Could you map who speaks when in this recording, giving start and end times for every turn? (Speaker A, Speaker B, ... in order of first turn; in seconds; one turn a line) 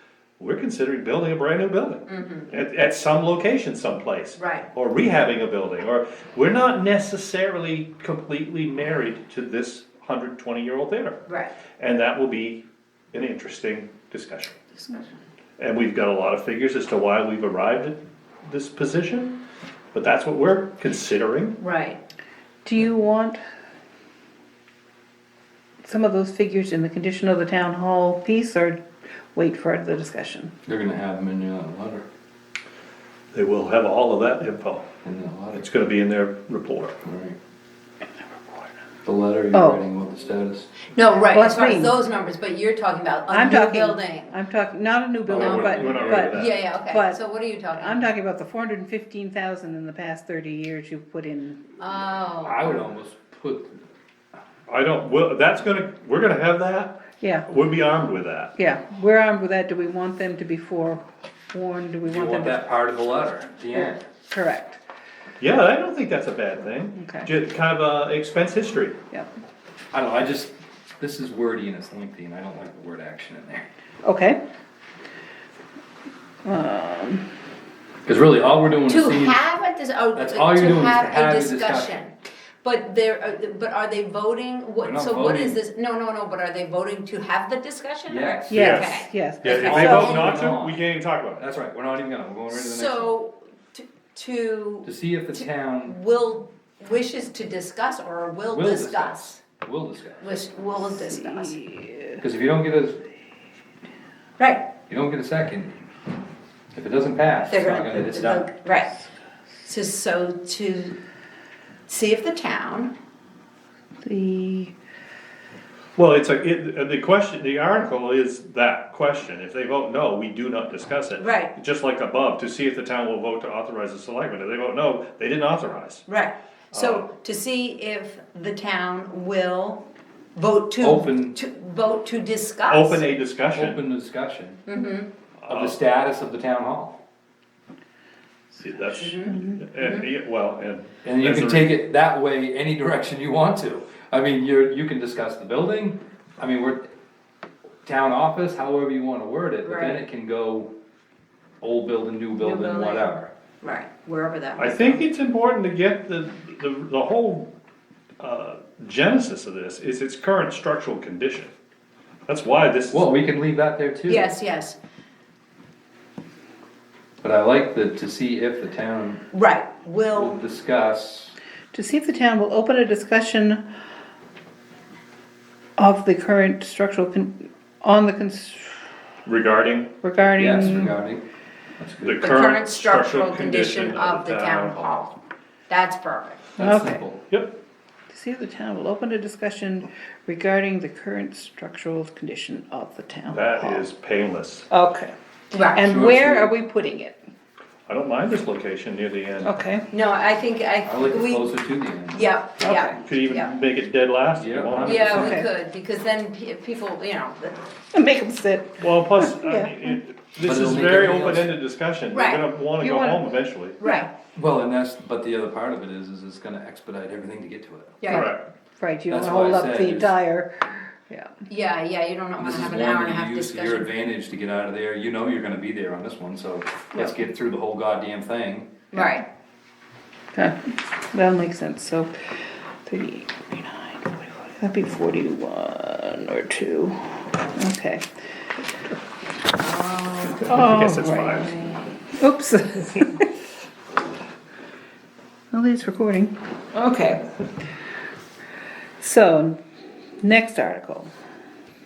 Speaker A: 0.4-11.2
Speaker B: 2.0-2.6
Speaker B: 4.3-4.7
Speaker B: 11.3-11.5
Speaker A: 11.8-14.6
Speaker A: 15.6-19.4
Speaker A: 19.9-21.6
Speaker B: 21.6-22.0
Speaker C: 22.6-23.4
Speaker C: 25.8-28.8
Speaker C: 29.3-30.5
Speaker D: 30.6-32.0
Speaker A: 33.3-34.9
Speaker D: 35.0-35.6
Speaker A: 35.5-37.0
Speaker D: 37.0-37.4
Speaker D: 39.0-40.7
Speaker C: 39.5-39.8
Speaker B: 40.9-44.3
Speaker C: 41.3-42.0
Speaker C: 43.3-47.2
Speaker D: 45.3-46.3
Speaker A: 45.3-46.6
Speaker B: 45.4-48.0
Speaker C: 47.7-51.8
Speaker B: 51.8-52.8
Speaker D: 52.4-53.8
Speaker A: 54.7-58.5
Speaker C: 57.2-57.5
Speaker C: 58.6-62.8
Speaker D: 62.0-64.0
Speaker C: 64.3-64.8
Speaker A: 65.4-69.0
Speaker C: 67.0-67.3
Speaker D: 69.9-73.7
Speaker C: 74.0-74.4
Speaker C: 76.4-77.2
Speaker D: 78.0-79.4
Speaker B: 78.9-90.4
Speaker D: 80.1-82.0
Speaker D: 84.8-85.6
Speaker D: 88.1-88.8
Speaker C: 88.5-90.2
Speaker A: 88.5-88.8
Speaker A: 89.4-91.4
Speaker D: 89.4-90.8
Speaker D: 91.4-93.1
Speaker B: 92.5-99.4
Speaker D: 94.8-96.0
Speaker D: 98.5-100.4
Speaker B: 100.2-101.6
Speaker C: 101.0-102.2
Speaker D: 102.2-103.0
Speaker B: 104.4-104.7
Speaker D: 104.9-105.7
Speaker D: 106.7-108.5
Speaker B: 107.5-108.9
Speaker B: 109.6-111.0
Speaker B: 111.9-112.9
Speaker C: 114.0-114.7
Speaker A: 116.0-126.0
Speaker B: 121.2-121.5
Speaker B: 126.0-129.8
Speaker A: 126.7-127.0
Speaker B: 130.3-133.0
Speaker D: 130.8-131.4
Speaker A: 132.7-133.8
Speaker D: 133.5-134.6
Speaker B: 134.7-135.1
Speaker A: 135.4-135.8
Speaker D: 135.5-137.0
Speaker A: 138.5-141.8
Speaker B: 139.0-140.1
Speaker D: 141.0-146.9
Speaker D: 147.8-150.7
Speaker B: 149.6-150.0
Speaker D: 151.6-153.3
Speaker B: 152.4-155.0
Speaker A: 154.6-157.5
Speaker A: 158.2-161.5
Speaker A: 162.3-163.1
Speaker D: 162.9-164.3
Speaker B: 164.1-164.8
Speaker D: 167.2-169.2
Speaker B: 169.3-170.4
Speaker D: 170.1-171.3
Speaker C: 171.7-173.6
Speaker C: 175.8-178.8
Speaker A: 179.2-179.9
Speaker C: 180.0-180.9
Speaker D: 180.4-181.2
Speaker D: 181.8-182.2
Speaker A: 182.0-184.8
Speaker B: 182.2-185.1
Speaker B: 185.7-186.5
Speaker D: 186.6-187.2
Speaker C: 186.6-187.0
Speaker A: 187.3-187.5
Speaker C: 188.1-193.8
Speaker A: 193.3-194.7
Speaker C: 194.7-197.2
Speaker B: 195.5-195.8
Speaker D: 195.8-196.5
Speaker A: 197.9-199.6
Speaker C: 199.4-199.9
Speaker B: 199.9-201.5
Speaker D: 200.8-202.3
Speaker B: 202.1-203.5
Speaker C: 202.6-203.0
Speaker A: 202.9-205.4
Speaker D: 204.4-205.3
Speaker B: 204.8-207.7
Speaker C: 205.1-205.5
Speaker C: 207.9-209.9
Speaker A: 208.8-213.8
Speaker D: 210.4-211.5
Speaker B: 212.1-212.5
Speaker C: 212.8-213.3
Speaker B: 213.8-214.1
Speaker D: 214.3-218.0
Speaker B: 218.0-218.3
Speaker A: 218.1-218.4
Speaker C: 218.1-221.4
Speaker D: 219.1-220.2
Speaker B: 221.5-223.9
Speaker D: 222.4-228.8
Speaker C: 228.9-229.2
Speaker B: 228.9-229.2
Speaker C: 230.3-232.1
Speaker C: 232.8-238.0
Speaker B: 239.6-240.4
Speaker A: 240.3-241.6
Speaker C: 240.4-243.2
Speaker C: 245.5-247.2
Speaker C: 249.0-249.6
Speaker C: 250.2-251.1